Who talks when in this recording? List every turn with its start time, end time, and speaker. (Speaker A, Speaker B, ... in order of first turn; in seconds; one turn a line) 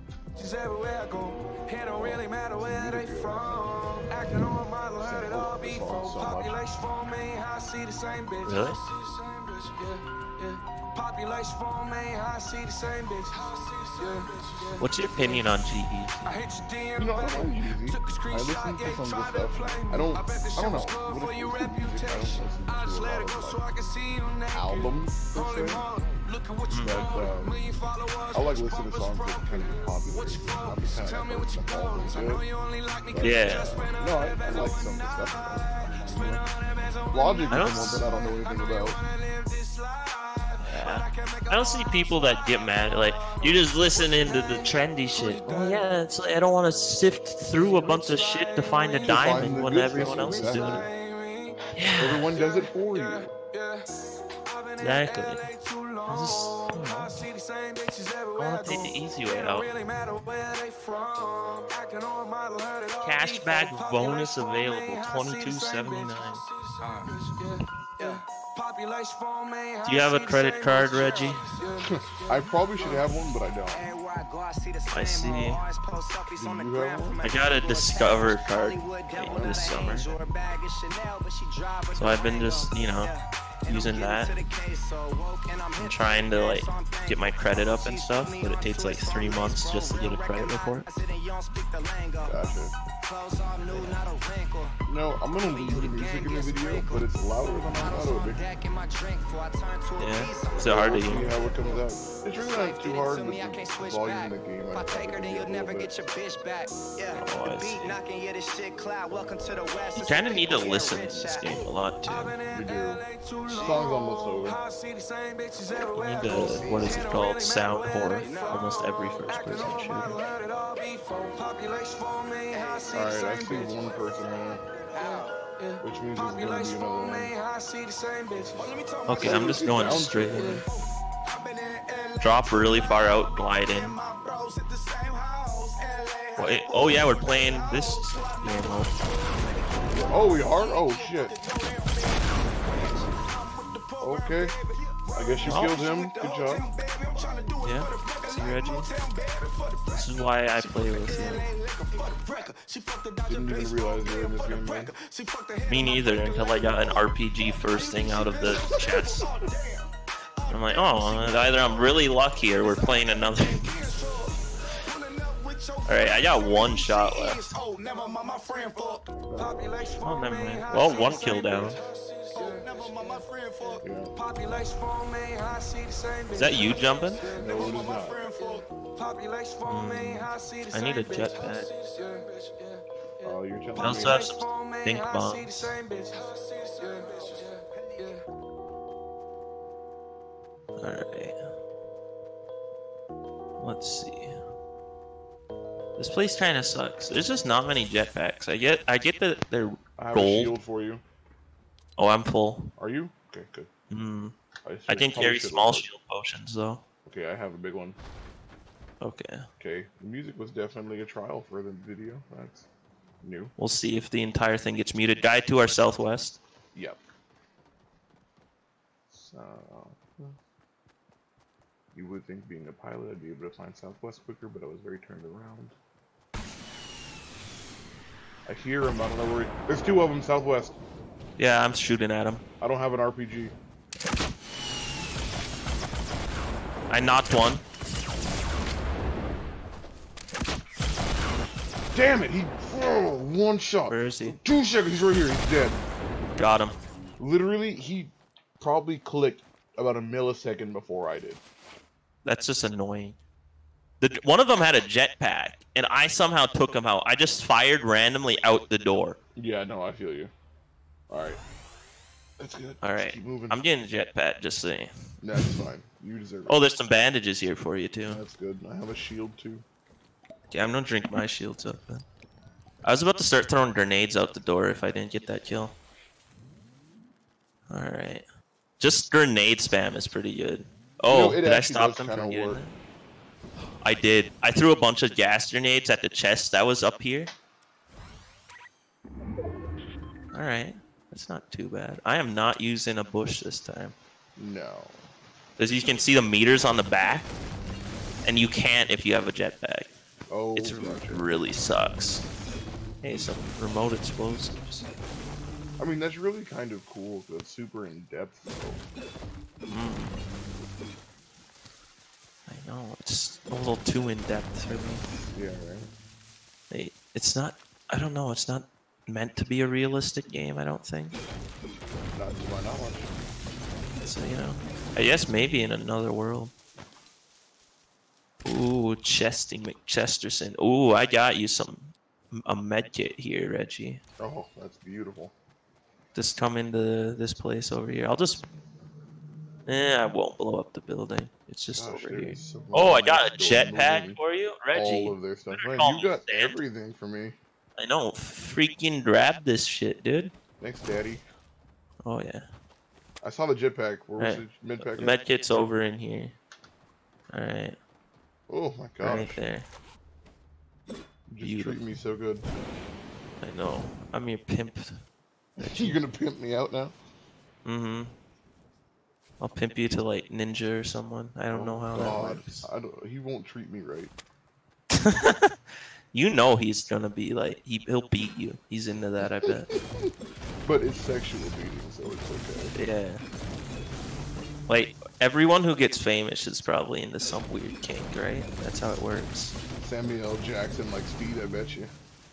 Speaker A: 0.4-45.9
Speaker B: 2.0-3.7
Speaker B: 5.0-6.6
Speaker C: 8.4-8.8
Speaker C: 14.8-16.1
Speaker B: 17.0-23.6
Speaker B: 24.5-25.8
Speaker C: 26.7-27.1
Speaker B: 26.8-27.6
Speaker B: 28.3-32.5
Speaker B: 33.1-36.5
Speaker C: 33.2-33.7
Speaker B: 37.1-39.0
Speaker C: 37.5-38.0
Speaker C: 40.6-50.9
Speaker A: 47.5-51.6
Speaker B: 49.0-50.9
Speaker C: 51.8-52.3
Speaker B: 52.0-53.3
Speaker A: 52.3-73.0
Speaker C: 54.8-55.5
Speaker C: 56.1-57.2
Speaker C: 58.4-59.7
Speaker C: 63.0-66.4
Speaker D: 66.8-67.1
Speaker C: 69.8-71.4
Speaker B: 71.8-73.9
Speaker D: 73.7-92.4
Speaker C: 74.9-75.6
Speaker B: 76.4-77.2
Speaker C: 77.2-80.1
Speaker B: 79.3-79.9
Speaker C: 81.9-83.1
Speaker C: 83.7-84.3
Speaker C: 85.8-90.9
Speaker B: 92.3-92.8
Speaker D: 93.0-94.8
Speaker C: 93.7-94.0
Speaker B: 94.8-98.4
Speaker D: 95.4-97.2
Speaker D: 97.7-111.7
Speaker C: 100.0-101.3
Speaker B: 100.5-105.9
Speaker C: 107.2-108.0
Speaker C: 110.0-112.4
Speaker A: 112.1-123.9
Speaker B: 112.5-114.6
Speaker D: 113.5-113.8
Speaker C: 116.0-120.2
Speaker D: 116.3-117.2
Speaker D: 118.0-119.4
Speaker D: 122.5-125.4
Speaker B: 122.9-124.6
Speaker A: 125.0-129.2
Speaker B: 125.8-127.3
Speaker B: 128.3-130.6
Speaker D: 128.6-169.1
Speaker C: 129.1-130.6
Speaker A: 130.3-130.7
Speaker C: 132.2-133.9
Speaker A: 132.7-133.1
Speaker C: 136.4-138.9
Speaker A: 136.7-137.3
Speaker B: 139.9-141.3
Speaker A: 142.8-144.8
Speaker B: 144.0-144.5
Speaker B: 145.1-146.7
Speaker A: 145.4-146.5
Speaker C: 145.4-145.7
Speaker A: 147.1-148.1
Speaker C: 147.6-148.9
Speaker C: 149.9-151.5
Speaker A: 150.8-152.5
Speaker A: 153.1-154.9
Speaker B: 153.3-154.9
Speaker A: 155.6-156.8
Speaker C: 155.7-159.3
Speaker A: 157.8-159.6
Speaker C: 160.5-163.7
Speaker A: 163.6-164.3
Speaker C: 165.8-167.5
Speaker A: 167.5-188.2
Speaker B: 169.3-169.6
Speaker C: 170.0-171.8
Speaker B: 170.7-171.7
Speaker D: 170.9-171.4
Speaker D: 172.3-173.8
Speaker B: 173.8-174.1
Speaker C: 176.3-177.2
Speaker D: 177.2-178.7
Speaker B: 177.3-178.2
Speaker C: 179.7-181.7
Speaker B: 183.2-184.3
Speaker C: 183.8-185.7
Speaker D: 186.1-188.1
Speaker C: 190.8-191.4
Speaker C: 193.6-194.4
Speaker C: 196.0-200.5
Speaker B: 200.0-201.0
Speaker C: 202.0-202.7
Speaker B: 202.8-203.7
Speaker C: 203.9-204.3
Speaker B: 204.6-205.9
Speaker C: 204.9-206.8
Speaker B: 207.0-208.0
Speaker C: 209.0-209.5
Speaker B: 209.6-212.7
Speaker B: 213.2-213.5
Speaker C: 213.6-216.4
Speaker B: 216.7-217.0
Speaker B: 219.1-220.3
Speaker B: 221.9-225.7
Speaker B: 228.5-230.8
Speaker C: 231.4-232.4
Speaker B: 232.6-233.5
Speaker C: 236.9-237.6
Speaker B: 241.9-245.8
Speaker C: 243.9-244.4
Speaker C: 246.3-246.8
Speaker B: 247.2-251.4
Speaker C: 252.2-253.2
Speaker C: 254.0-259.2
Speaker B: 259.4-260.3
Speaker B: 261.1-261.4
Speaker B: 262.4-263.6
Speaker C: 262.8-265.6
Speaker B: 265.2-266.6
Speaker C: 266.5-268.2
Speaker B: 268.1-269.6
Speaker C: 270.5-272.1
Speaker C: 272.8-275.8
Speaker C: 277.7-278.2
Speaker C: 278.8-282.7
Speaker B: 281.1-282.6
Speaker C: 283.8-287.3
Speaker C: 290.3-294.0
Speaker B: 294.4-295.0
Speaker C: 295.6-297.3
Speaker C: 298.2-299.9
Speaker B: 300.3-301.3
Speaker C: 300.6-302.2
Speaker C: 303.0-304.9
Speaker B: 305.8-308.8
Speaker C: 309.7-310.1
Speaker C: 312.5-315.1
Speaker B: 315.3-315.9
Speaker C: 316.7-321.2
Speaker B: 322.1-323.1
Speaker C: 324.0-326.5
Speaker C: 328.4-334.0
Speaker B: 334.2-335.3
Speaker C: 336.1-338.4
Speaker C: 339.7-346.6
Speaker B: 341.7-344.2
Speaker B: 344.7-347.4
Speaker C: 347.8-350.3
Speaker B: 350.6-351.2
Speaker C: 352.0-352.4
Speaker B: 353.2-355.2
Speaker C: 354.2-356.4
Speaker C: 357.3-357.8
Speaker B: 358.5-359.4
Speaker C: 359.0-359.7
Speaker B: 361.3-362.5
Speaker C: 361.4-361.8
Speaker C: 363.4-365.0
Speaker B: 365.6-366.9
Speaker C: 365.6-366.0
Speaker C: 367.6-368.1
Speaker C: 369.4-372.6
Speaker B: 371.5-374.1
Speaker C: 374.9-379.7
Speaker B: 379.4-380.1
Speaker B: 380.6-382.8
Speaker C: 382.8-383.2
Speaker C: 384.7-389.6
Speaker B: 389.8-391.9